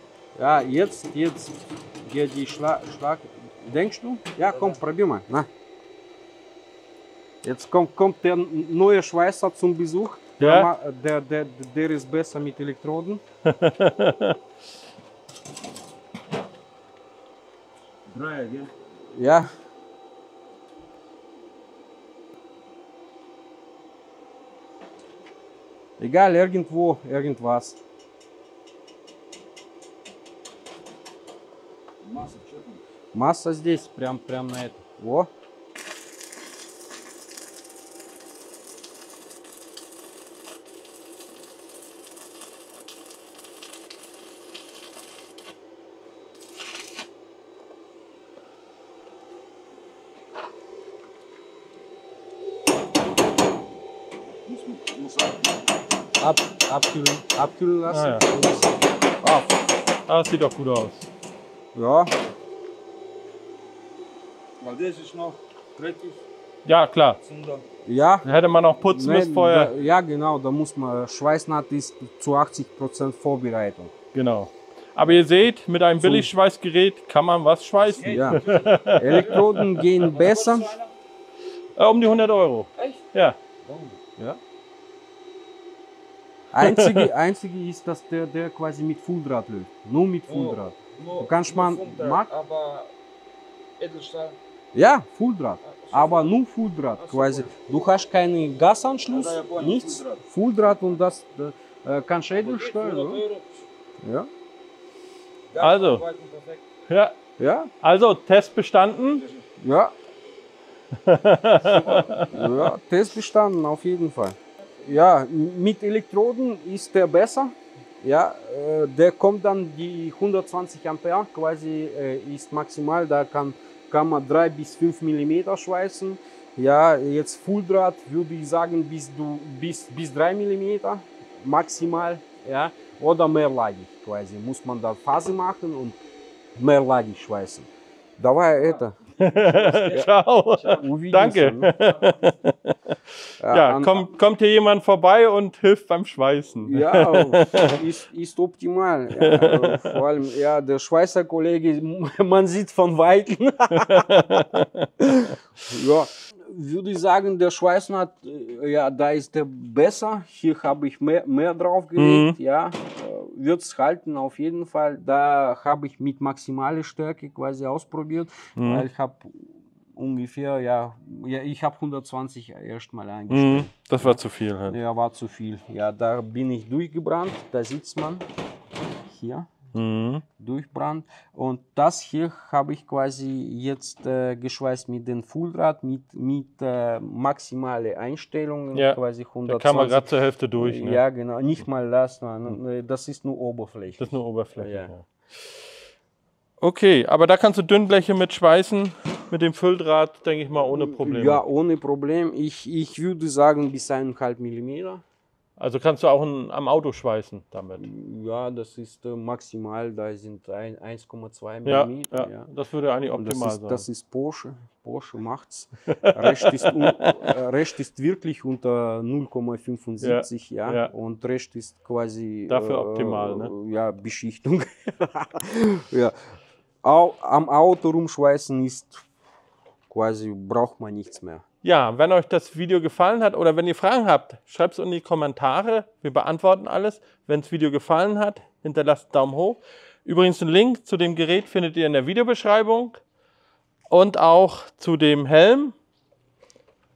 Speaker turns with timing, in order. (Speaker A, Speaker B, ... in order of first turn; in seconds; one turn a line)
Speaker A: 0.4-5.5
Speaker A: 7.4-13.2
Speaker B: 10.4-10.7
Speaker B: 13.4-14.4
Speaker C: 18.1-18.7
Speaker A: 19.1-19.5
Speaker A: 26.0-27.8
Speaker C: 32.0-32.8
Speaker A: 33.1-35.3
Speaker C: 54.5-55.6
Speaker A: 56.2-59.6
Speaker B: 57.9-58.3
Speaker B: 60.1-61.1
Speaker A: 61.8-62.1
Speaker C: 64.6-66.2
Speaker B: 66.7-67.2
Speaker C: 67.2-67.7
Speaker A: 67.8-68.3
Speaker B: 68.2-69.7
Speaker A: 68.9-73.9
Speaker B: 74.1-80.1
Speaker A: 76.0-76.3
Speaker C: 77.9-80.9
Speaker A: 78.0-80.8
Speaker B: 81.8-83.4
Speaker C: 82.8-83.0
Speaker C: 83.7-84.0
Speaker A: 86.5-92.3
Speaker B: 86.6-87.1
Speaker C: 90.3-92.9
Speaker C: 93.8-94.4
Speaker A: 94.7-103.2
Speaker C: 95.6-96.4
Speaker C: 97.0-97.5
Speaker C: 99.1-100.2
Speaker C: 102.3-103.5
Speaker A: 104.0-104.3
Speaker C: 105.5-106.7
Speaker B: 105.6-106.0
Speaker B: 106.9-107.2
Speaker A: 107.4-107.7
Speaker B: 107.8-109.3
Speaker A: 109.6-109.9
Speaker B: 111.0-112.3
Speaker C: 111.8-112.3
Speaker A: 112.3-136.0
Speaker A: 136.6-139.0
Speaker B: 139.2-142.8
Speaker C: 139.4-140.1
Speaker A: 140.6-141.8
Speaker A: 143.4-144.1
Speaker B: 143.5-147.8
Speaker A: 146.7-154.2
Speaker B: 149.2-150.0
Speaker B: 153.7-154.9
Speaker A: 155.0-178.3
Speaker B: 162.0-162.4
Speaker B: 168.6-168.8
Speaker B: 173.3-174.8
Speaker A: 179.1-179.5
Speaker B: 179.7-180.2
Speaker A: 180.4-194.9
Speaker B: 188.8-191.0
Speaker B: 194.0-195.1
Speaker B: 196.6-201.4
Speaker A: 200.9-205.0
Speaker B: 205.6-207.9
Speaker A: 207.8-212.5
Speaker B: 211.7-213.8
Speaker A: 213.1-226.2
Speaker B: 216.0-217.3
Speaker B: 220.0-220.9
Speaker B: 222.5-223.5
Speaker A: 226.8-229.0
Speaker A: 229.9-231.4
Speaker B: 231.6-243.0
Speaker B: 243.9-245.8